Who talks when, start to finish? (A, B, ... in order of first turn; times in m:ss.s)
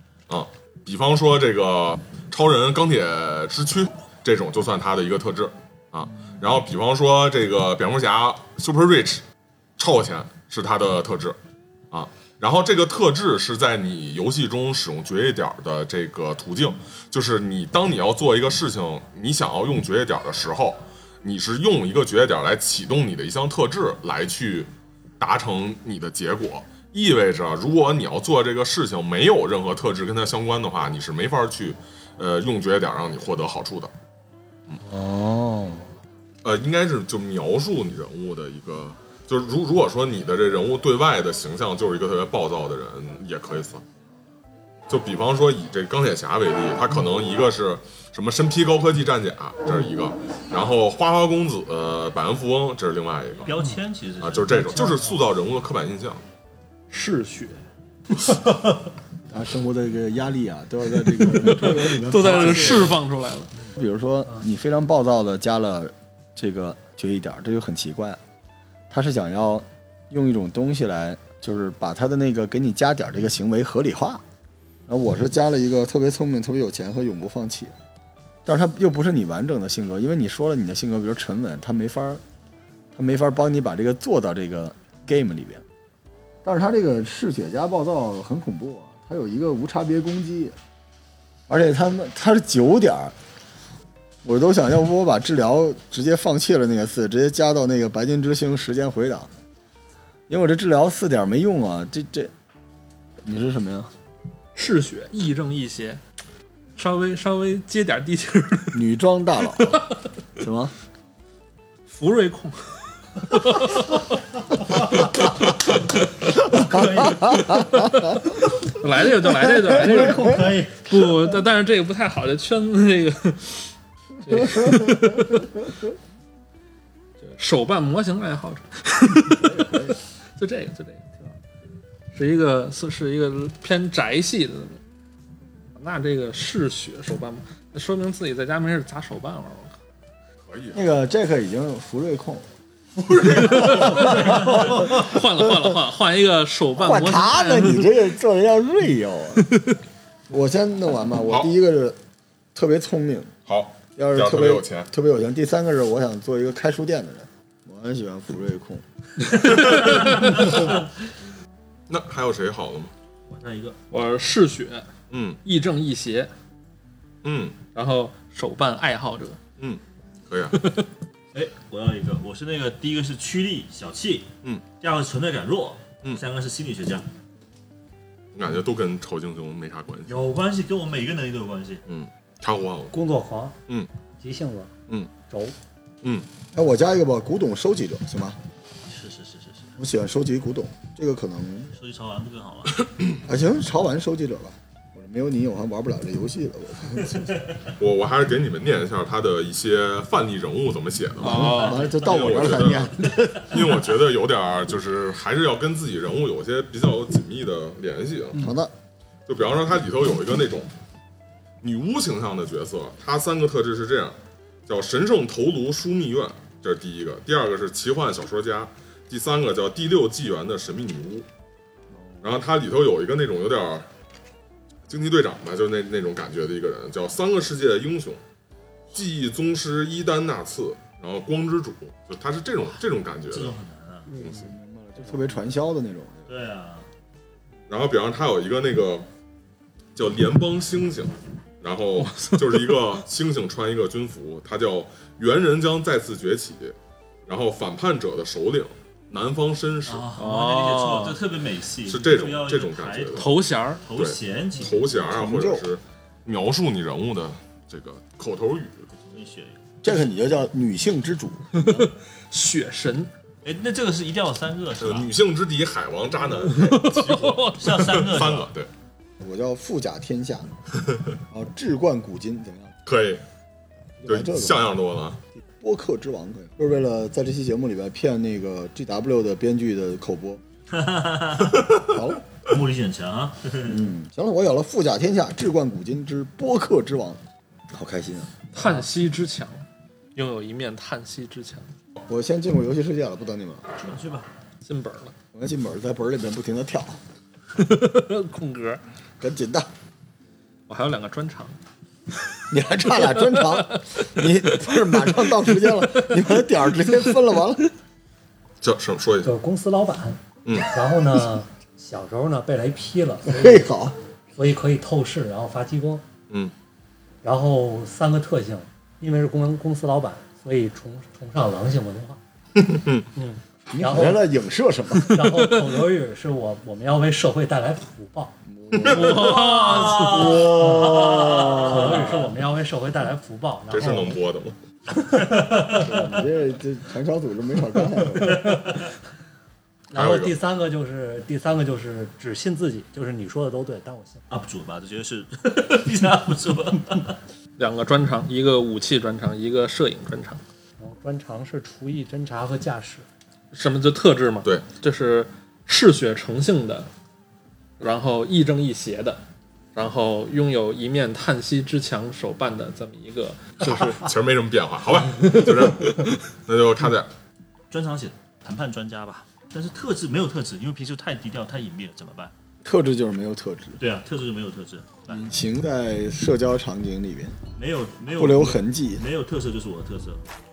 0:00.3-0:09.2 A
0:09.8-0:11.4 A
0:11.9-0:33.9 A
0:34.8-0:35.9 B
0:36.4-0:43.8 A
0:44.9-0:53.6 A
0:53.4-0:54.9 C
0:54.2-0:56.2 A
0:56.9-0:57.6 D
0:59.3-1:03.0 B
1:01.1-1:03.5 D
1:01.8-1:03.0 C
1:03.7-1:08.2 B
1:08.9-1:14.2 B
1:14.9-1:17.7 B
1:18.4-1:22.2 B
1:22.9-1:25.6 B
1:26.4-1:30.5 B
1:31.5-1:33.1 B
1:34.2-1:39.3 B
1:40.3-1:42.3 B
1:43.2-1:43.9 B
1:44.6-1:46.0 D
1:46.8-1:48.8 D
1:48.7-1:49.8 B
1:50.4-1:50.7 B
1:51.9-1:54.2 D
1:54.8-1:55.5 D
1:56.5-1:57.6 E
1:56.6-1:58.3 B
1:58.6-2:03.7 D
1:59.5-2:00.4 B
1:59.5-2:01.0 E
2:04.2-2:05.5 D
2:04.3-2:05.5 B
2:07.2-2:11.3 D
2:09.4-2:10.0 B
2:12.1-2:14.8 D
2:15.7-2:19.7 D
2:20.4-2:20.8 A
2:20.7-2:22.4 B
2:23.1-2:24.2 A
2:23.1-2:28.0 D
2:23.4-2:25.8 B
2:26.8-2:29.6 B
2:29.4-2:29.8 D
2:30.3-2:32.0 B
2:32.5-2:33.3 B
2:33.5-2:34.9 A
2:34.0-2:38.8 B
2:39.5-2:40.4 D
2:41.9-2:42.9 A
2:43.3-2:43.8 C
2:43.9-2:44.9 D
2:45.1-2:45.4 A
2:45.4-2:46.3 D
2:47.2-2:47.6 A
2:47.7-2:49.4 D
2:49.6-2:50.6 A
2:50.5-2:50.8 D
2:51.3-2:57.0 C
2:58.3-3:00.1 A
3:00.1-3:01.8 C
3:01.9-3:03.0 A
3:02.9-3:03.6 E
3:04.2-3:04.7 E
3:05.3-3:05.5 E
3:06.5-3:08.4 B
3:08.9-3:09.8 C
3:09.8-3:11.7 B
3:11.7-3:12.8 C
3:13.2-3:17.4 B
3:17.1-3:17.7 C
3:17.8-3:28.4 A
3:21.2-3:21.8 D
3:21.2-3:23.8 B
3:21.6-3:22.8 C
3:28.3-3:28.7 B
3:29.3-3:30.7 A
3:31.6-3:34.2 A
3:34.7-3:41.2 A
3:42.2-3:43.8 A
3:44.9-3:48.2 A
3:48.9-3:53.5 A
3:53.3-3:54.1 C
3:54.1-3:55.3 E
3:54.2-3:56.3 B
3:56.3-3:56.9 C
3:57.7-3:59.1 A
3:59.9-4:06.7 A
4:02.1-4:02.5 D
4:07.3-4:10.1 A
4:09.8-4:14.8 C
4:10.2-4:11.2 D
4:11.8-4:13.3 A
4:13.2-4:13.8 D
4:13.9-4:18.9 A
4:14.9-4:15.6 B
4:18.9-4:19.6 C
4:19.8-4:21.7 B
4:21.5-4:23.1 D
4:21.6-4:21.9 C
4:23.4-4:25.1 C
4:24.8-4:28.7 A
4:26.4-4:28.0 D
4:26.9-4:28.5 C
4:29.2-4:30.5 B
4:31.3-4:32.7 B
4:32.8-4:33.2 A
4:34.0-4:34.7 B
4:34.0-4:35.2 A
4:35.6-4:40.4 B
4:40.7-4:41.8 C
4:41.8-4:42.2 B
4:42.4-4:43.9 C
4:43.7-4:48.6 B
4:48.5-4:49.6 D
4:50.1-4:51.7 D
4:52.0-4:53.7 B
4:53.8-4:54.3 C
4:54.6-4:55.1 D
4:55.3-4:57.0 B
4:57.5-4:58.8 D
4:59.2-4:59.7 B
5:00.7-5:01.5 D
5:02.5-5:07.7 B
5:02.9-5:04.2 D
5:05.5-5:06.2 D
5:08.6-5:09.3 A
5:09.2-5:13.7 E
5:13.2-5:14.0 B
5:14.3-5:16.0 E
5:17.2-5:22.2 E
5:22.6-5:23.0 A
5:23.2-5:24.2 E
5:23.7-5:25.2 B
5:25.0-5:28.3 E
5:28.5-5:29.3 B
5:28.8-5:31.6 D
5:29.0-5:32.3 C
5:30.5-5:34.2 E
5:33.7-5:34.5 A
5:35.0-5:36.2 E
5:35.7-5:38.6 B
5:39.9-5:40.4 A
5:39.9-5:44.2 E
5:44.3-5:47.2 C
5:47.6-5:50.4 D
5:50.8-5:53.0 E
5:53.5-5:56.9 D
5:57.8-5:59.2 D
5:59.7-6:04.1 D
6:03.6-6:07.1 A
6:07.7-6:12.3 C
6:12.6-6:13.8 B
6:13.8-6:15.2 C
6:15.1-6:17.4 B
6:17.6-6:20.2 C
6:18.2-6:19.0 B